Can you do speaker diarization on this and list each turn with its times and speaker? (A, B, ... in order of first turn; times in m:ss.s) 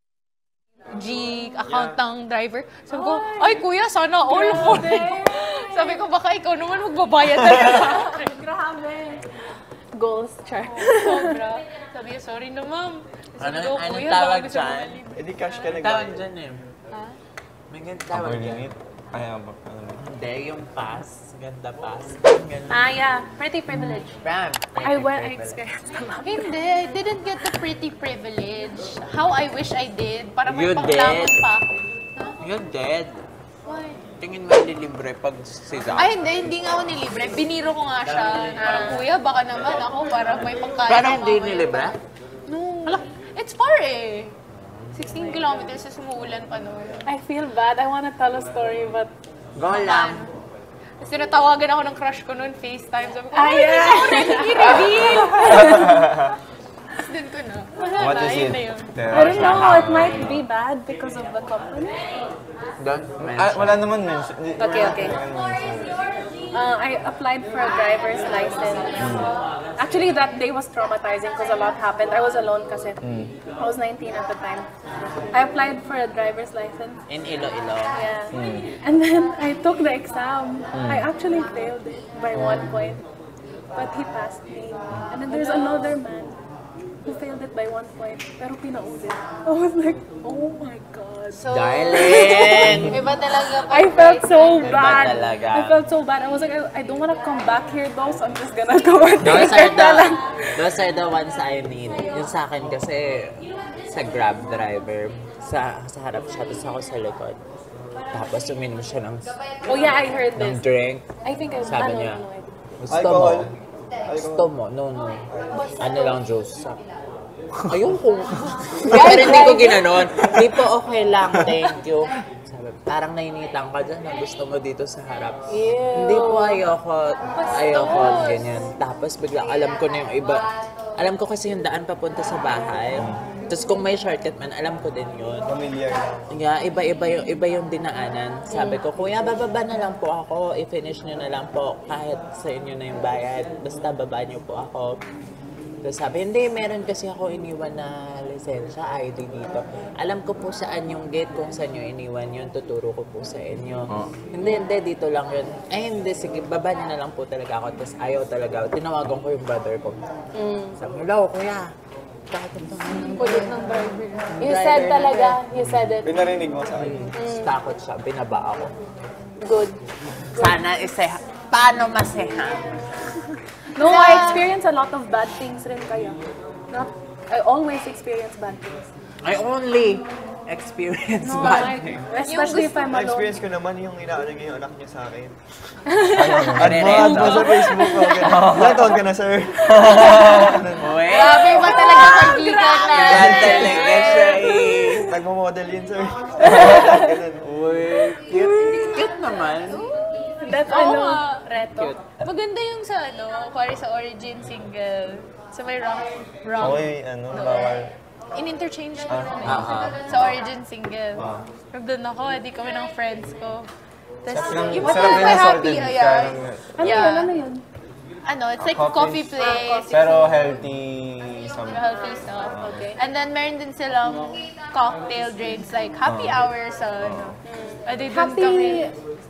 0:00.9-0:08.4 A
0:02.9-0:03.7 B
0:04.2-0:06.1 B
0:07.6-0:09.4 B
0:09.9-0:11.4 B
0:10.6-0:15.8 A
0:13.4-0:15.0 C
0:15.1-0:16.2 D
0:15.8-0:16.7 C
0:16.9-0:17.2 A
0:17.7-0:18.7 C
0:18.1-0:20.0 E
0:20.0-0:22.8 C
0:22.7-0:23.8 A
0:23.6-0:24.2 B
0:24.2-0:25.6 C
0:24.8-0:26.5 B
0:26.2-0:32.4 A
0:27.4-0:27.7 B
0:30.5-0:31.4 C
0:32.4-0:33.2 C
0:33.6-0:34.0 A
0:34.2-0:36.1 C
0:35.9-0:44.3 A
0:38.6-0:39.0 B
0:40.8-0:42.0 C
0:44.5-0:45.0 C
0:44.9-0:47.0 A
0:45.2-0:45.7 B
0:47.0-0:49.1 B
0:49.6-0:50.2 C
0:49.6-0:50.3 A
0:51.0-0:55.8 A
0:53.3-0:56.1 B
0:55.6-0:56.1 E
0:57.0-0:59.0 A
0:58.0-1:00.4 E
0:59.1-1:02.0 B
0:59.1-1:00.4 C
1:02.8-1:03.8 C
1:03.2-1:05.9 E
1:04.6-1:05.2 B
1:06.5-1:09.2 B
1:09.0-1:09.3 E
1:09.8-1:13.0 B
1:13.0-1:13.3 E
1:13.6-1:14.7 B
1:15.3-1:17.0 B
1:17.1-1:18.0 C
1:17.9-1:23.0 B
1:18.3-1:18.7 E
1:20.7-1:21.1 E
1:22.4-1:22.7 E
1:23.7-1:26.3 B
1:25.3-1:25.9 A
1:27.0-1:32.8 B
1:31.3-1:34.8 A
1:31.5-1:33.0 C
1:33.4-1:40.2 B
1:34.6-1:35.8 C
1:39.2-1:43.4 C
1:39.2-1:39.5 E
1:43.9-1:47.4 C
1:48.1-1:51.0 C
1:49.6-1:50.6 B
1:51.2-1:52.7 B
1:51.6-1:52.2 C
1:52.8-1:53.5 C
1:52.9-1:53.5 D
1:54.0-1:54.5 D
1:54.2-1:55.2 C
1:55.3-1:55.9 D
1:55.5-1:56.2 A
1:55.8-1:56.8 C
1:57.7-2:05.4 C
1:58.9-1:59.3 D
1:58.9-1:59.9 A
1:58.9-1:59.9 B
2:05.5-2:06.5 B
2:05.9-2:10.4 C
2:07.3-2:08.7 A
2:11.0-2:15.5 C
2:12.9-2:13.2 E
2:15.4-2:16.2 D
2:16.3-2:25.0 C
2:25.8-2:40.0 C
2:33.9-2:34.1 E
2:40.4-2:40.7 B
2:40.8-2:41.7 C
2:42.3-2:43.5 C
2:43.0-2:44.3 A
2:43.2-2:43.6 B
2:44.3-2:45.9 C
2:44.4-2:46.2 B
2:46.0-2:47.1 D
2:46.8-2:48.7 C
2:47.1-2:47.5 B
2:49.4-2:49.8 B
2:50.3-2:50.6 B
2:50.3-2:52.8 C
2:53.7-2:56.2 B
2:53.8-2:54.5 A
2:56.7-2:58.9 B
2:59.2-3:02.0 C
3:01.2-3:03.4 B
3:02.2-3:02.8 A
3:02.8-3:05.3 D
3:05.9-3:06.6 B
3:06.1-3:07.4 E
3:06.5-3:10.5 D
3:06.6-3:07.5 C
3:07.4-3:08.6 B
3:08.2-3:09.0 E
3:09.7-3:10.6 B
3:09.7-3:10.9 E
3:10.8-3:15.1 C
3:11.0-3:14.5 A
3:11.5-3:12.5 B
3:13.0-3:14.0 D
3:14.4-3:15.1 B
3:15.1-3:17.4 D
3:16.4-3:17.2 B
3:17.4-3:19.9 C
3:18.3-3:19.0 B
3:18.6-3:27.8 A
3:20.4-3:21.9 B
3:21.7-3:22.0 C
3:26.6-3:27.9 E
3:28.3-3:33.7 A
3:29.1-3:29.8 E
3:29.4-3:30.0 C
3:34.2-3:37.3 A
3:34.3-3:37.0 E
3:34.6-3:35.4 B
3:36.8-3:37.6 B
3:38.2-3:40.4 A
3:38.6-3:39.3 E
3:39.4-3:39.9 B
3:39.9-3:41.8 E
3:41.7-3:48.9 A
3:42.4-3:42.8 E
3:42.6-3:43.0 B
3:46.0-3:46.5 E
3:47.0-3:47.4 E
3:47.4-3:48.9 B